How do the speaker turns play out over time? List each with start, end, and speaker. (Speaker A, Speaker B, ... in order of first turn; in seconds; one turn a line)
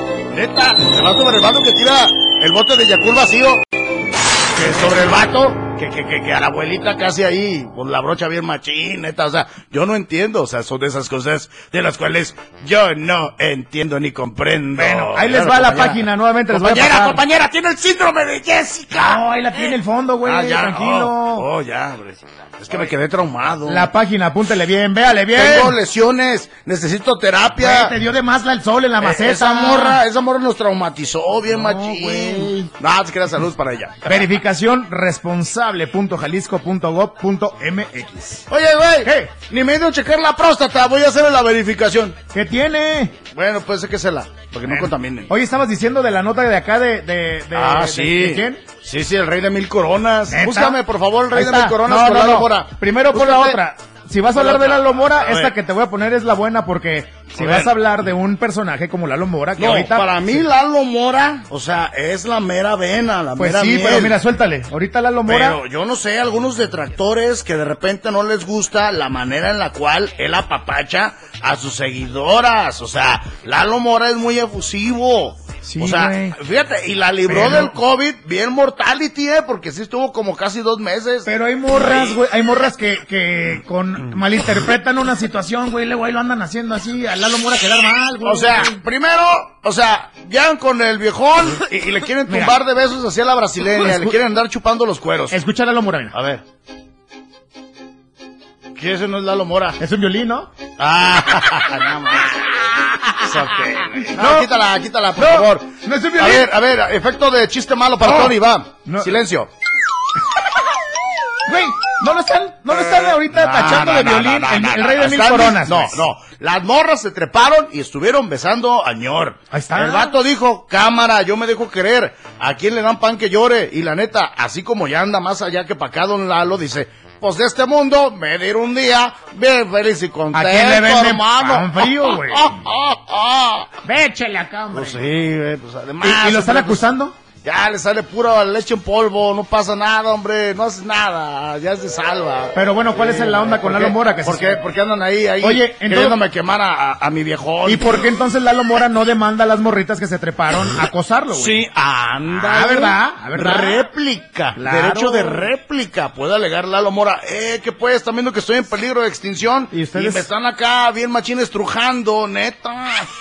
Speaker A: 0.3-3.6
Speaker A: 4.5-23.9
Speaker B: 14.7-17.2
Speaker B: 18.9-21.5
Speaker B: 23.7-25.8
Speaker A: 25.3-27.9
Speaker B: 27.6-30.0
Speaker A: 29.0-34.2
Speaker B: 31.5-32.7
Speaker B: 34.1-38.5
Speaker A: 38.5-42.2
Speaker B: 39.0-39.3
Speaker B: 42.3-43.2
Speaker A: 43.3-45.3
Speaker B: 44.7-48.6
Speaker A: 47.5-53.6
Speaker B: 50.3-50.8
Speaker B: 51.3-60.5
Speaker A: 54.3-55.5
Speaker A: 57.3-57.8
Speaker A: 59.6-64.2
Speaker B: 63.4-65.6
Speaker A: 65.3-82.2
Speaker B: 75.6-76.4
Speaker B: 77.3-77.8
Speaker B: 81.3-88.8
Speaker A: 88.2-95.4
Speaker B: 92.3-92.6
Speaker B: 93.8-94.2
Speaker B: 95.3-96.2
Speaker A: 96.1-96.4
Speaker A: 98.8-99.8
Speaker B: 99.8-100.5
Speaker A: 100.8-102.6
Speaker B: 102.7-104.5
Speaker A: 103.2-109.5
Speaker B: 105.2-106.5
Speaker B: 108.0-109.2
Speaker B: 111.5-116.0
Speaker A: 112.9-133.8
Speaker B: 119.5-120.2
Speaker B: 130.3-132.5
Speaker B: 133.8-135.0
Speaker A: 134.7-136.8
Speaker B: 136.0-137.2
Speaker A: 137.4-148.0
Speaker B: 142.6-144.6
Speaker B: 145.4-146.2
Speaker B: 147.7-151.6
Speaker A: 151.3-163.1
Speaker B: 152.4-153.8
Speaker B: 154.6-155.5
Speaker B: 159.7-160.3